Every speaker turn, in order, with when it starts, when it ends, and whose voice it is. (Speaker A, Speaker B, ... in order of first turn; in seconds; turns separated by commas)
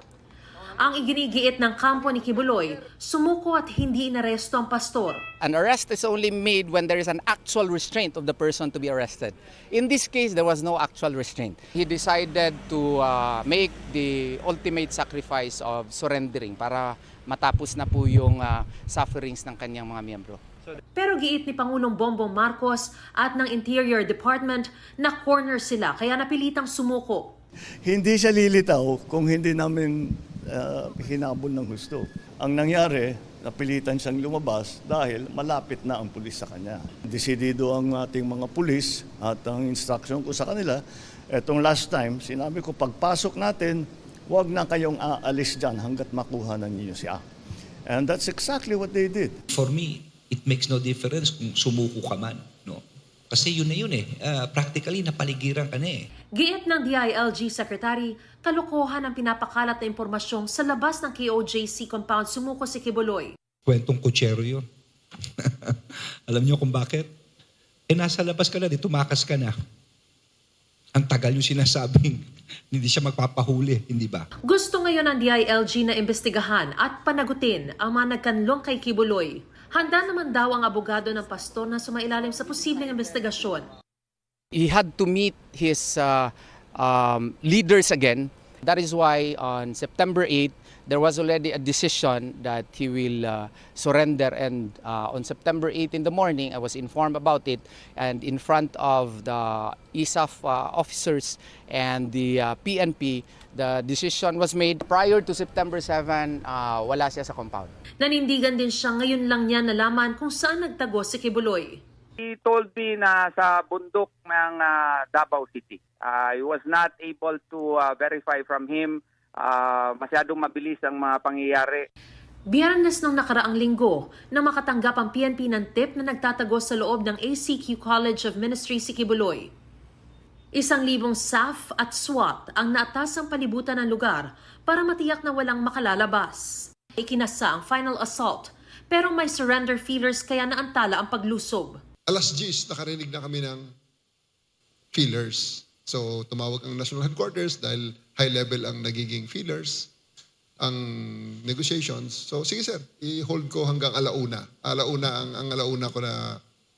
Speaker A: 0.8-5.2, Speaker B: 5.4-20.4, Speaker A: 21.0-27.3, Speaker C: 27.9-47.2, Speaker C: 47.9-49.4, Speaker D: 49.5-56.0, Speaker A: 56.4-63.3, Speaker D: 63.7-64.7, Speaker D: 65.4-67.1, Speaker D: 67.9-69.6, Speaker D: 71.0-74.3, Speaker A: 74.5-83.7, Speaker B: 84.5-107.8, Speaker A: 108.0-111.8, Speaker E: 112.2-121.8, Speaker A: 122.5-129.5, Speaker A: 130.6-141.8, Speaker F: 142.1-143.7, Speaker F: 144.9-149.9, Speaker F: 150.6-156.4